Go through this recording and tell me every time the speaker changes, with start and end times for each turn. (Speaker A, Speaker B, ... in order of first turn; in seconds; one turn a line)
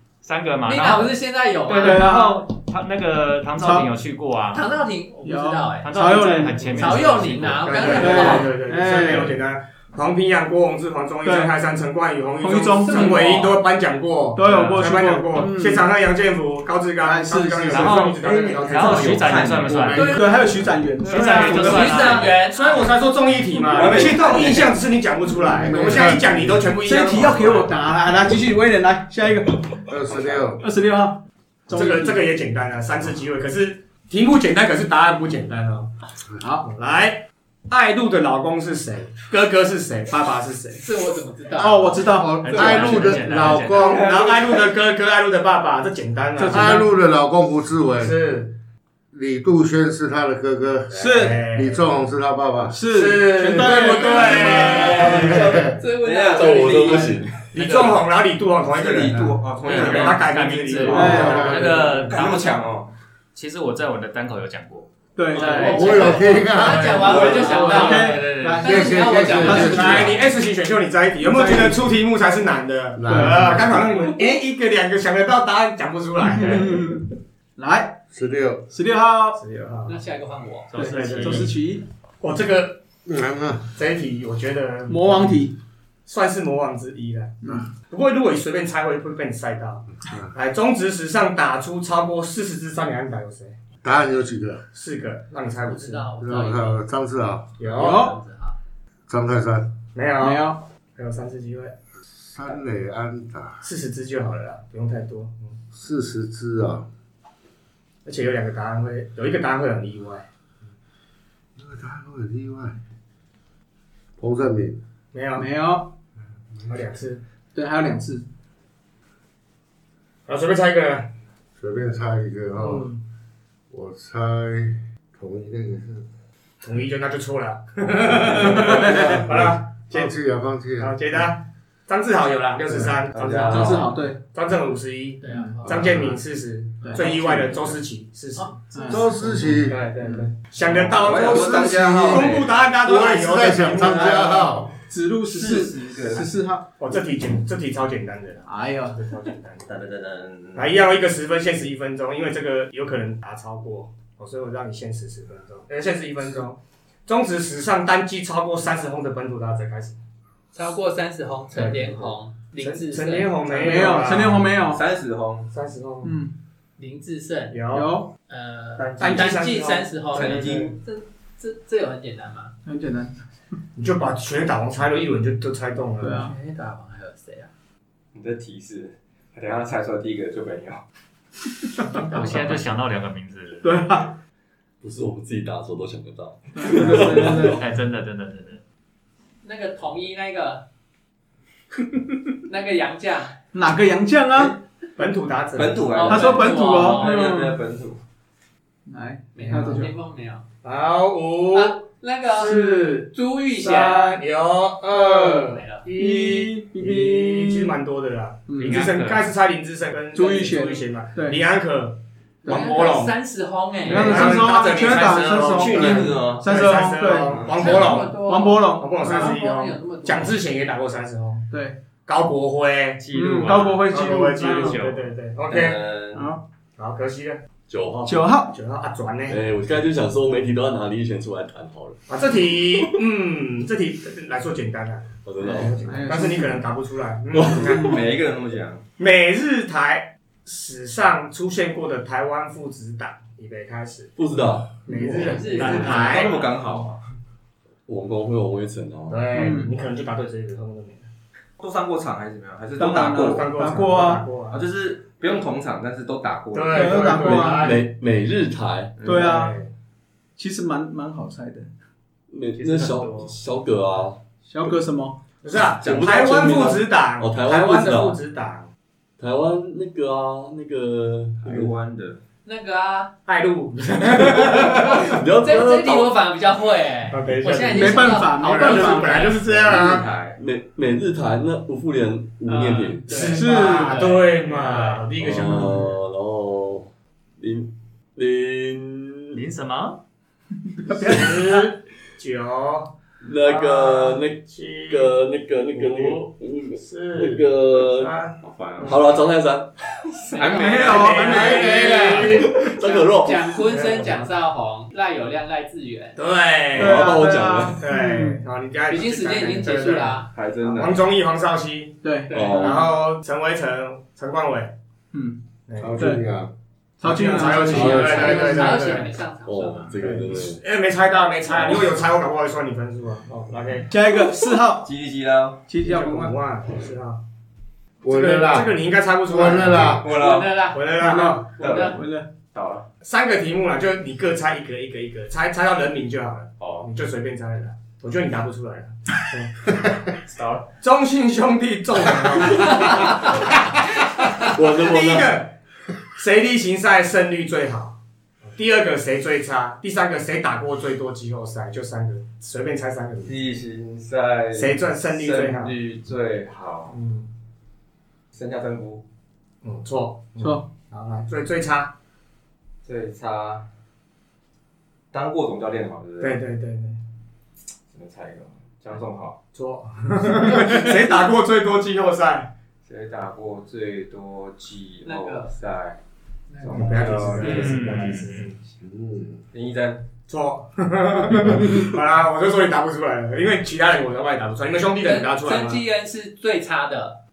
Speaker A: 0.2-1.2
Speaker B: 0.7-2.4
Speaker A: 1.7-4.7
Speaker C: 1.8-2.4
Speaker C: 3.6-3.9
Speaker B: 4.5-8.5
Speaker C: 5.2-7.0
Speaker A: 5.8-8.0
Speaker D: 7.6-20.1
Speaker C: 7.9-9.4
Speaker C: 11.2-11.5
Speaker C: 12.4-13.6
Speaker B: 12.8-13.6
Speaker C: 14.3-15.9
Speaker C: 17.0-18.5
Speaker A: 17.7-20.1
Speaker E: 18.3-20.0
Speaker B: 19.9-20.4
Speaker C: 19.9-22.2
Speaker A: 21.1-22.4
Speaker B: 21.1-22.9
Speaker D: 21.1-27.7
Speaker E: 23.7-24.8
Speaker F: 25.5-26.7
Speaker C: 25.6-26.2
Speaker C: 26.8-29.9
Speaker F: 29.9-30.6
Speaker C: 30.6-32.2
Speaker D: 31.7-35.9
Speaker D: 36.6-40.9
Speaker B: 40.8-42.0
Speaker C: 41.6-43.2
Speaker F: 42.0-44.3
Speaker A: 42.4-44.1
Speaker D: 42.6-46.8
Speaker C: 46.4-46.9
Speaker F: 46.5-48.2
Speaker D: 48.0-48.5
Speaker F: 49.1-52.9
Speaker C: 50.9-51.4
Speaker D: 50.9-51.9
Speaker C: 52.7-55.4
Speaker D: 52.9-55.6
Speaker B: 54.3-57.2
Speaker G: 54.7-55.4
Speaker F: 55.0-55.7
Speaker E: 56.0-57.2
Speaker G: 56.4-57.3
Speaker D: 57.5-61.9
Speaker A: 57.5-58.0
Speaker E: 58.7-60.4
Speaker A: 59.6-62.6
Speaker C: 60.9-61.5
Speaker E: 60.9-62.9
Speaker F: 61.1-61.9
Speaker A: 63.4-68.8
Speaker C: 65.2-66.2
Speaker B: 65.4-70.2
Speaker F: 65.5-67.4
Speaker C: 67.1-70.1
Speaker D: 67.2-67.8
Speaker F: 68.6-70.2
Speaker D: 69.5-77.0
Speaker C: 71.2-71.8
Speaker F: 73.0-74.0
Speaker C: 73.1-73.7
Speaker C: 76.2-78.0
Speaker F: 78.1-78.7
Speaker C: 78.7-79.4
Speaker D: 79.3-80.0
Speaker B: 79.9-81.0
Speaker A: 80.7-81.5
Speaker C: 80.7-81.8
Speaker D: 80.8-81.6
Speaker D: 82.2-82.8
Speaker F: 83.0-83.7
Speaker D: 83.8-85.4
Speaker C: 84.9-85.6
Speaker D: 86.1-93.6
Speaker C: 87.4-87.7
Speaker F: 93.8-94.7
Speaker D: 94.7-96.1
Speaker B: 95.7-96.8
Speaker F: 96.2-97.6
Speaker D: 97.6-98.1
Speaker C: 97.8-98.2
Speaker B: 97.8-98.6
Speaker F: 99.1-99.7
Speaker D: 99.9-101.8
Speaker C: 100.2-100.6
Speaker F: 102.2-103.7
Speaker D: 103.6-105.6
Speaker F: 105.7-106.9
Speaker D: 108.0-110.3
Speaker F: 111.6-112.8
Speaker F: 114.2-114.8
Speaker D: 115.1-115.5
Speaker C: 115.4-115.9
Speaker D: 116.7-117.2
Speaker C: 117.5-118.3
Speaker D: 120.3-121.1
Speaker F: 121.6-122.9
Speaker D: 122.6-123.0
Speaker F: 123.7-126.1
Speaker D: 126.6-130.1
Speaker F: 128.3-131.1
Speaker C: 128.6-129.2
Speaker D: 130.8-144.6
Speaker E: 133.1-134.0
Speaker C: 133.5-134.2
Speaker B: 135.2-136.1
Speaker F: 135.7-136.0
Speaker C: 136.8-137.2
Speaker B: 137.1-137.6
Speaker C: 138.7-139.0
Speaker F: 138.9-139.9
Speaker E: 141.0-142.5
Speaker F: 141.0-144.7
Speaker C: 143.8-144.3
Speaker C: 144.9-146.7
Speaker E: 145.3-146.3
Speaker D: 146.8-149.7
Speaker C: 148.5-149.0
Speaker E: 149.6-150.8
Speaker D: 150.6-160.0
Speaker B: 160.5-164.1
Speaker D: 161.5-164.5
Speaker C: 163.6-164.8
Speaker E: 164.6-165.5
Speaker D: 165.5-166.2
Speaker C: 166.0-166.3
Speaker B: 166.8-167.6
Speaker D: 167.5-167.9
Speaker C: 167.7-168.1
Speaker B: 168.3-172.5
Speaker D: 168.8-170.6
Speaker E: 168.9-169.4
Speaker E: 170.1-170.8
Speaker C: 172.7-173.1
Speaker D: 173.8-176.3
Speaker C: 176.0-176.3
Speaker B: 176.1-177.5
Speaker E: 178.1-180.8
Speaker B: 181.9-182.6
Speaker A: 182.1-183.7
Speaker C: 183.6-184.1
Speaker G: 184.8-187.6
Speaker C: 186.6-187.6
Speaker A: 186.9-188.6
Speaker B: 189.4-190.7
Speaker B: 192.5-193.3
Speaker C: 193.5-194.6
Speaker D: 195.0-195.9
Speaker E: 195.6-198.0
Speaker B: 195.9-197.2
Speaker C: 196.1-197.6
Speaker C: 198.9-199.9
Speaker B: 199.3-200.4
Speaker D: 199.5-199.9
Speaker D: 200.6-213.1
Speaker B: 201.5-204.2
Speaker B: 204.9-205.9
Speaker C: 205.9-207.8
Speaker C: 208.5-208.9
Speaker A: 208.6-209.3
Speaker C: 210.1-211.4
Speaker B: 212.5-214.4
Speaker C: 213.8-219.4
Speaker D: 213.9-218.2
Speaker E: 215.5-216.6
Speaker E: 217.2-217.9
Speaker B: 217.5-220.4
Speaker D: 218.8-221.5
Speaker C: 221.5-221.8
Speaker D: 222.1-225.8
Speaker C: 223.1-224.9
Speaker A: 223.3-223.8
Speaker A: 224.4-225.0
Speaker E: 225.5-226.3
Speaker C: 226.1-226.4
Speaker D: 226.8-227.4
Speaker G: 227.7-228.3
Speaker C: 228.1-228.6
Speaker D: 228.5-229.4
Speaker G: 229.3-232.9
Speaker D: 232.1-237.9
Speaker G: 235.2-235.9
Speaker C: 235.7-236.7
Speaker E: 237.5-238.8
Speaker C: 237.6-238.0
Speaker D: 239.0-244.2
Speaker G: 244.2-244.7
Speaker D: 244.8-246.4
Speaker B: 244.9-246.5
Speaker E: 245.2-247.0
Speaker G: 247.9-249.3
Speaker D: 249.1-251.1
Speaker C: 249.3-249.7
Speaker E: 251.6-253.5
Speaker C: 252.8-254.3
Speaker D: 253.2-254.7
Speaker E: 254.5-257.3
Speaker D: 256.5-257.8
Speaker C: 256.7-257.8
Speaker G: 257.4-259.0
Speaker E: 259.0-259.3
Speaker C: 259.1-259.6
Speaker D: 259.1-259.7
Speaker C: 260.4-261.7
Speaker G: 262.3-264.2
Speaker A: 262.6-263.3
Speaker C: 264.5-265.2
Speaker D: 265.4-268.7
Speaker G: 265.8-268.2
Speaker G: 269.2-271.7
Speaker E: 271.4-272.2
Speaker B: 272.4-273.1
Speaker D: 273.3-275.2
Speaker G: 274.1-276.1
Speaker B: 275.4-279.4
Speaker D: 277.1-280.1
Speaker C: 277.7-279.4
Speaker E: 279.3-280.4
Speaker G: 280.4-283.3
Speaker B: 282.5-285.0
Speaker D: 283.1-285.9
Speaker C: 283.2-284.1
Speaker G: 285.2-289.4
Speaker A: 289.3-290.0
Speaker C: 290.8-291.6
Speaker D: 290.9-295.1
Speaker G: 293.2-298.1
Speaker D: 295.8-296.2
Speaker D: 296.8-299.0
Speaker E: 298.4-299.0
Speaker G: 298.8-299.7
Speaker B: 300.3-306.2
Speaker E: 300.3-301.3
Speaker D: 300.4-302.6
Speaker C: 300.5-302.1
Speaker G: 301.7-303.6
Speaker D: 303.6-304.3
Speaker D: 306.2-314.7
Speaker G: 306.8-307.9
Speaker C: 306.8-308.4
Speaker B: 308.9-310.3
Speaker E: 310.3-311.1
Speaker C: 312.0-312.8
Speaker B: 312.3-312.7
Speaker G: 312.3-312.9
Speaker C: 315.1-315.4
Speaker D: 315.7-316.0
Speaker F: 315.8-316.5
Speaker C: 317.0-319.0
Speaker D: 317.0-319.1
Speaker B: 317.7-319.9
Speaker G: 317.7-318.2
Speaker F: 317.8-318.1
Speaker G: 319.4-320.6
Speaker D: 320.0-323.9
Speaker C: 323.9-324.9
Speaker E: 324.8-325.7
Speaker C: 325.7-326.4
Speaker D: 325.8-327.2
Speaker F: 328.0-330.1
Speaker D: 328.1-330.0
Speaker E: 329.9-330.6
Speaker B: 330.0-332.0
Speaker D: 330.7-331.6
Speaker C: 331.0-332.3
Speaker E: 331.6-332.0
Speaker E: 332.5-332.9
Speaker D: 333.0-339.6
Speaker E: 336.6-336.9
Speaker E: 340.3-340.6
Speaker D: 340.7-345.5
Speaker G: 344.5-345.4
Speaker D: 346.1-348.0
Speaker D: 348.6-353.4
Speaker E: 353.2-356.9
Speaker D: 354.5-355.8
Speaker D: 356.9-357.3
Speaker E: 358.3-359.0
Speaker D: 359.6-361.9
Speaker C: 360.4-360.7
Speaker E: 362.8-363.7
Speaker E: 365.1-366.4
Speaker D: 366.2-367.0
Speaker E: 367.9-369.4
Speaker D: 369.5-372.5
Speaker E: 372.9-376.0
Speaker B: 375.0-375.5
Speaker B: 376.5-377.6
Speaker E: 376.6-378.4
Speaker D: 376.7-378.6
Speaker A: 377.4-378.5
Speaker F: 378.8-379.4
Speaker E: 379.5-380.0
Speaker D: 380.3-385.8
Speaker B: 385.0-387.2